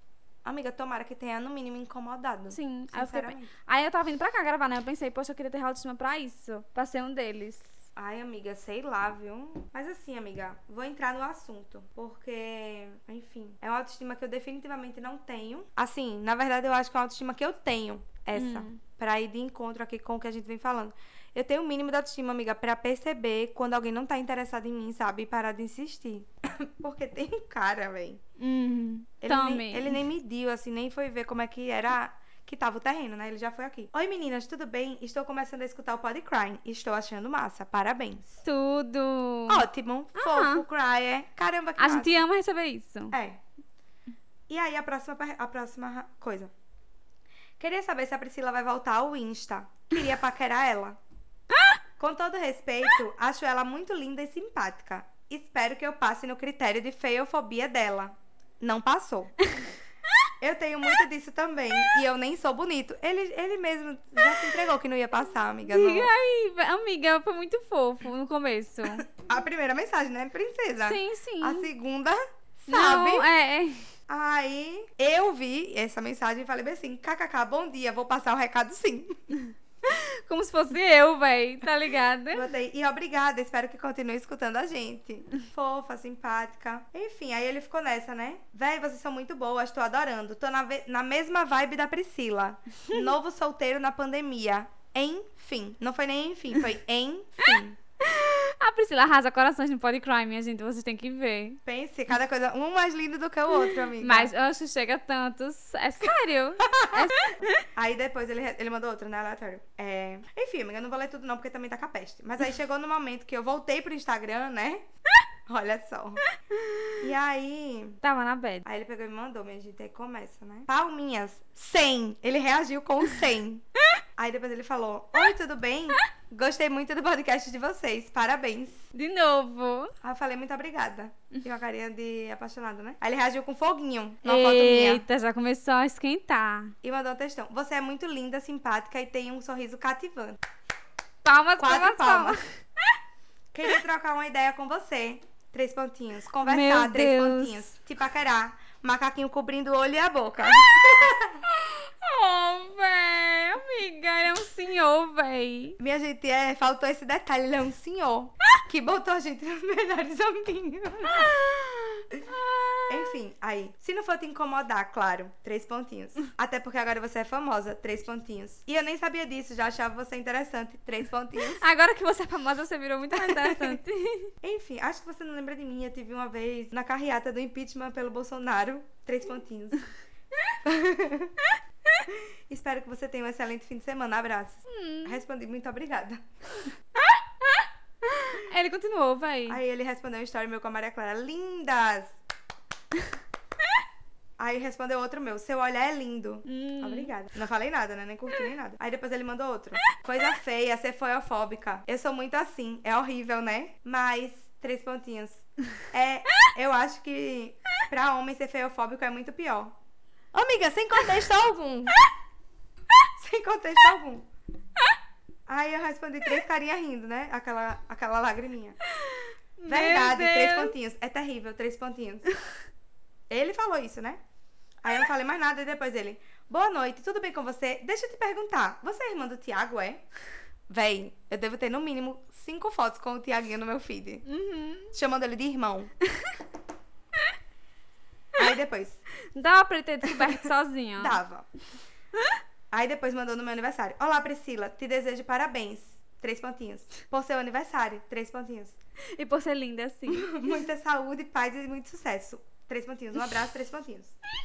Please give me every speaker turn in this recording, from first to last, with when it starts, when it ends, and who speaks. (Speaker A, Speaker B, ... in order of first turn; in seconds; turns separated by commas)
Speaker A: 0.4-3.5, Speaker B: 2.5-7.7, Speaker A: 8.0-28.2, Speaker B: 18.3-18.8, Speaker B: 28.4-30.0, Speaker A: 29.2-38.4, Speaker B: 38.4-39.6, Speaker A: 39.5-42.2, Speaker B: 40.2-40.6, Speaker B: 41.8-43.1, Speaker A: 43.1-43.4, Speaker A: 44.5-46.5, Speaker A: 47.6-51.0, Speaker B: 51.5-51.8, Speaker A: 52.0-59.3, Speaker A: 60.4-66.1, Speaker B: 65.7-69.1, Speaker A: 68.9-73.3, Speaker B: 70.8-71.7, Speaker B: 72.7-73.9, Speaker A: 74.1-79.2, Speaker B: 79.8-82.5, Speaker A: 82.3-97.8, Speaker B: 98.0-101.6, Speaker A: 101.7-104.3, Speaker B: 104.0-107.7, Speaker A: 106.6-107.1, Speaker A: 107.7-114.8, Speaker A: 115.5-116.2, Speaker B: 116.5-117.0, Speaker A: 117.0-118.0, Speaker B: 118.0-118.7, Speaker A: 118.7-123.7, Speaker A: 124.2-128.8, Speaker B: 128.9-129.9, Speaker A: 130.0-135.0, Speaker B: 134.2-136.7, Speaker A: 136.8-140.4, Speaker B: 141.2-142.5, Speaker A: 141.6-142.4, Speaker A: 143.5-151.4, Speaker B: 146.5-147.7, Speaker B: 150.5-155.8, Speaker A: 155.8-161.3, Speaker B: 161.0-163.1, Speaker A: 162.9-171.6, Speaker B: 171.4-174.3, Speaker A: 173.2-173.8, Speaker A: 174.4-179.9, Speaker A: 180.6-181.3, Speaker A: 182.0-186.2, Speaker B: 184.7-185.2, Speaker B: 187.0-189.6, Speaker A: 189.5-192.1, Speaker A: 194.4-209.7, Speaker B: 196.5-197.1, Speaker A: 210.3-211.9, Speaker A: 213.2-214.3, Speaker A: 215.5-218.8, Speaker B: 218.8-220.7, Speaker A: 219.7-222.2, Speaker A: 223.3-224.2, Speaker A: 224.8-230.0, Speaker A: 230.7-234.2, Speaker B: 234.3-234.9, Speaker A: 234.9-235.9, Speaker A: 238.4-239.0, Speaker B: 239.3-241.2, Speaker A: 241.0-241.5, Speaker A: 242.7-248.8, Speaker B: 249.1-250.4, Speaker A: 250.1-254.1